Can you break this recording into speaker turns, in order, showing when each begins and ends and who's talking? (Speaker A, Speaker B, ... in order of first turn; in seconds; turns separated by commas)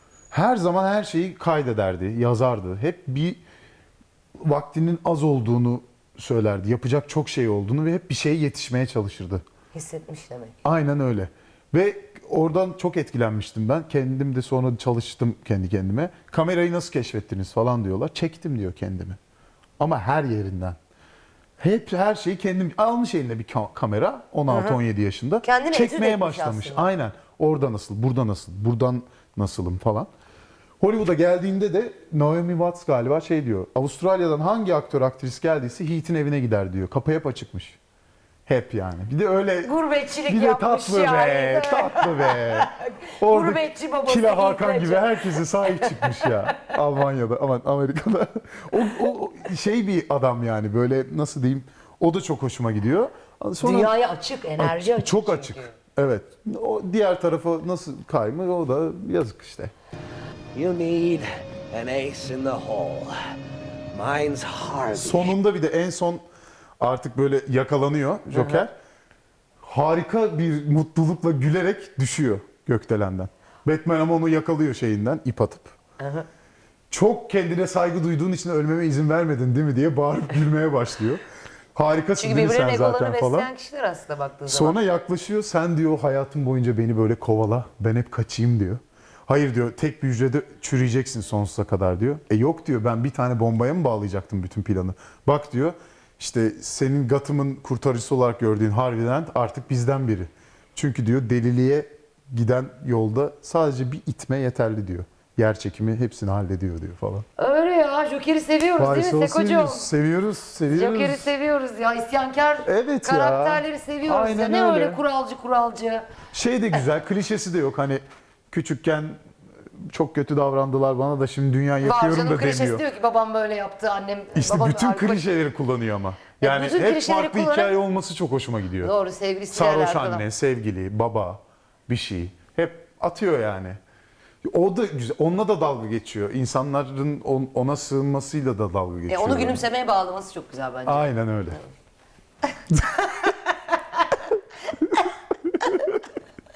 Speaker A: 0.3-3.4, Speaker A: 4.4-9.4, Speaker B: 9.7-10.6, Speaker A: 10.6-19.2, Speaker A: 19.8-20.8, Speaker A: 21.6-30.1, Speaker B: 24.5-24.8, Speaker B: 25.4-26.9, Speaker A: 30.8-37.8, Speaker A: 38.5-39.7, Speaker B: 39.6-46.7, Speaker A: 40.2-53.9, Speaker B: 53.6-55.7, Speaker A: 54.6-59.7, Speaker C: 60.5-63.2, Speaker C: 63.9-65.3, Speaker A: 64.9-66.2, Speaker A: 66.8-68.7, Speaker B: 68.3-68.7, Speaker A: 69.6-75.7, Speaker B: 76.0-76.3, Speaker A: 76.9-81.2, Speaker A: 81.7-83.5, Speaker B: 82.2-84.8, Speaker A: 84.5-107.2, Speaker B: 107.4-109.9, Speaker A: 108.8-111.3, Speaker B: 110.7-116.0, Speaker A: 112.7-115.0, Speaker A: 116.3-122.8, Speaker B: 121.8-125.2, Speaker A: 124.3-128.9, Speaker B: 126.4-127.8, Speaker B: 128.8-130.2, Speaker A: 129.5-133.8, Speaker A: 134.4-139.6, Speaker B: 139.1-141.1, Speaker A: 140.8-141.6, Speaker B: 142.8-144.2, Speaker A: 145.5-146.0